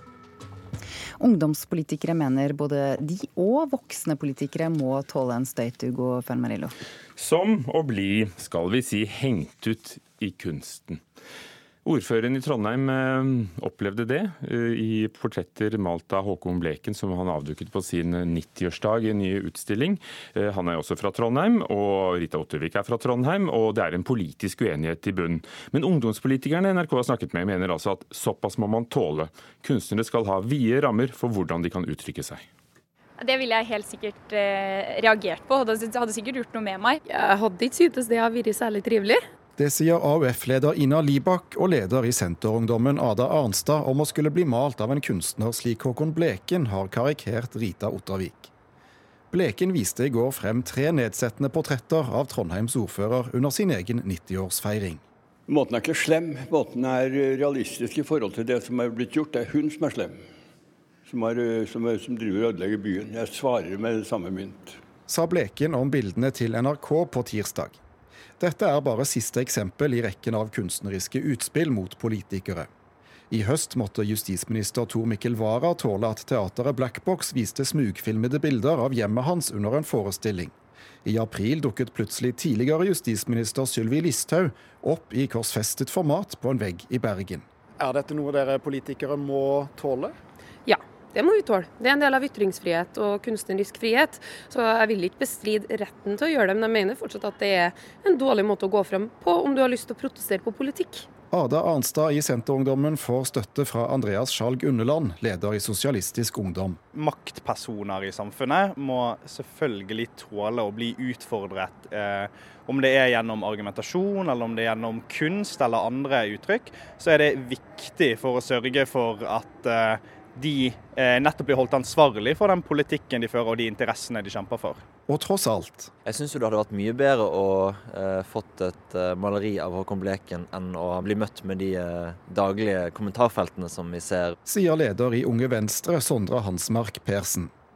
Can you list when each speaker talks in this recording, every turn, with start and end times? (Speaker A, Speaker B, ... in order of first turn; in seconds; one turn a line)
Speaker A: 1.2-6.8
Speaker B: 7.2-11.0
Speaker B: 11.8-32.4
Speaker C: 33.2-37.0
Speaker D: 37.1-39.2
Speaker E: 39.6-48.5
Speaker E: 49.3-55.0
Speaker F: 55.5-60.2
Speaker F: 61.1-64.8
Speaker E: 65.1-67.8
Speaker E: 68.4-72.7
Speaker E: 73.3-80.5
Speaker E: 81.0-90.1
Speaker D: 90.7-101.1
Speaker E: 101.3-106.8
Speaker G: 106.9-124.8
Speaker E: 125.1-125.9
Speaker H: 126.1-134.4
Speaker E: 134.4-137.5